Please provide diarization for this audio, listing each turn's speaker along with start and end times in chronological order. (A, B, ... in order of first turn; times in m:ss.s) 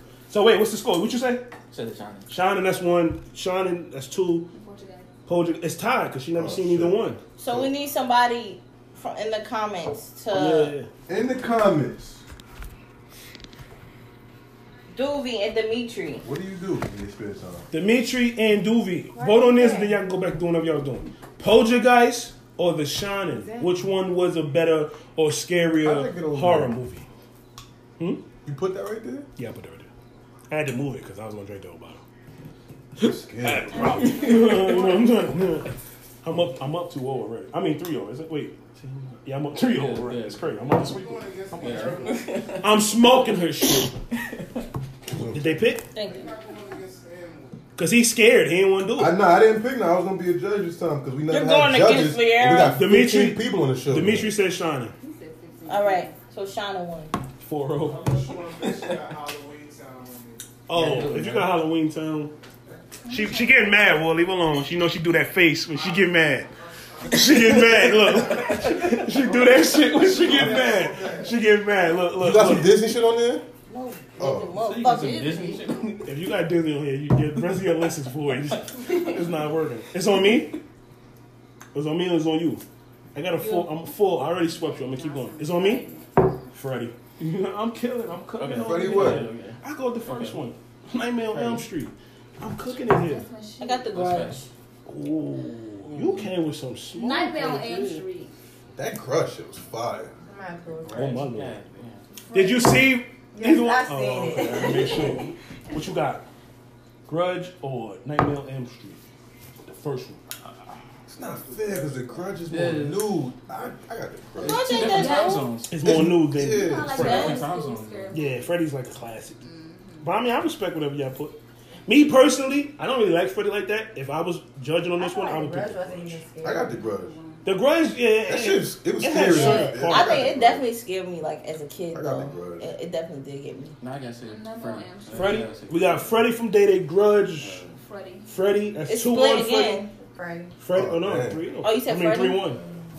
0:00.3-0:01.5 A
0:01.7-0:02.3 B
0:02.3-0:04.5 A
0:04.5-0:05.1 C
0:05.3-0:07.2 A
0:06.3-0:07.7 D
0:07.4-0:10.7 E
0:10.3-0:10.9 A
0:11.1-0:12.2 D
0:14.9-0:16.2 E
0:16.2-0:17.7 D
0:17.7-0:27.0 A
0:19.1-0:20.0 F
0:23.3-0:23.8 F
0:25.8-0:26.8 D
0:28.0-0:28.2 A
0:28.4-0:29.3 D
0:29.4-0:29.9 A
0:30.5-0:32.0 A
0:33.0-0:34.1 D
0:33.0-0:35.7 A
0:33.8-0:35.4 C
0:34.0-0:34.5 B
0:36.2-0:42.0 A
0:39.6-0:40.6 B
0:40.6-0:42.5 G
0:41.5-0:42.6 B
0:42.6-0:43.9 A
0:43.8-0:44.4 B
0:45.1-0:45.6 D
0:45.3-0:45.9 A
0:45.9-0:46.3 E
0:46.0-0:47.6 G
0:47.8-0:49.1 A
0:49.0-0:54.3 D
0:51.3-0:52.8 E
0:52.7-0:54.9 A
0:55.0-0:56.2 C
0:55.7-0:57.1 E
0:57.4-0:58.3 A
0:57.8-1:00.4 G
1:00.7-1:02.3 A
1:00.7-1:01.5 B
1:03.0-1:03.8 C
1:03.1-1:06.5 A
1:05.7-1:07.6 G
1:07.0-1:12.8 A
1:07.5-1:08.9 B
1:08.2-1:11.4 G
1:12.2-1:13.4 D
1:13.7-1:15.6 E
1:14.2-1:14.6 D
1:14.6-1:16.2 B
1:16.0-1:20.6 A
1:20.2-1:20.5 B
1:21.7-1:22.6 A
1:23.1-1:25.8 A
1:23.4-1:23.7 C
1:24.2-1:26.4 C
1:26.5-1:33.2 A
1:28.4-1:30.5 B
1:28.6-1:29.3 D
1:31.3-1:31.7 B
1:32.8-1:33.9 C
1:33.6-1:34.5 E
1:33.9-1:34.4 B
1:34.8-1:38.0 A
1:35.8-1:36.3 B
1:36.9-1:38.3 C
1:38.7-1:40.1 D
1:40.2-1:41.2 F
1:40.8-1:42.0 B
1:40.9-1:41.6 A
1:42.3-1:46.2 A
1:43.3-1:45.3 F
1:47.1-1:49.0 A
1:49.6-1:50.2 A
1:51.1-1:55.0 D
1:51.2-1:52.4 G
1:52.5-1:53.1 B
1:54.4-1:55.5 E
1:54.4-1:55.8 B
1:54.8-1:55.4 C
1:55.7-1:57.4 A
1:55.8-1:57.2 D
1:56.4-1:58.5 C
1:56.9-1:58.2 B
1:57.0-1:57.3 E
1:58.1-1:59.4 A
1:59.4-2:00.1 C
2:00.0-2:06.2 A
2:05.0-2:07.1 F
2:06.4-2:07.1 D
2:07.0-2:07.4 C
2:07.4-2:10.2 A
2:08.2-2:10.6 D
2:09.2-2:13.7 E
2:11.9-2:12.7 D
2:13.8-2:16.2 B
2:14.2-2:15.5 C
2:15.1-2:17.6 A
2:17.4-2:17.8 B
2:17.7-2:18.3 C
2:18.3-2:19.8 A
2:18.9-2:19.9 E
2:20.0-2:20.5 F
2:20.6-2:22.6 A
2:20.7-2:21.4 D
2:21.6-2:22.5 E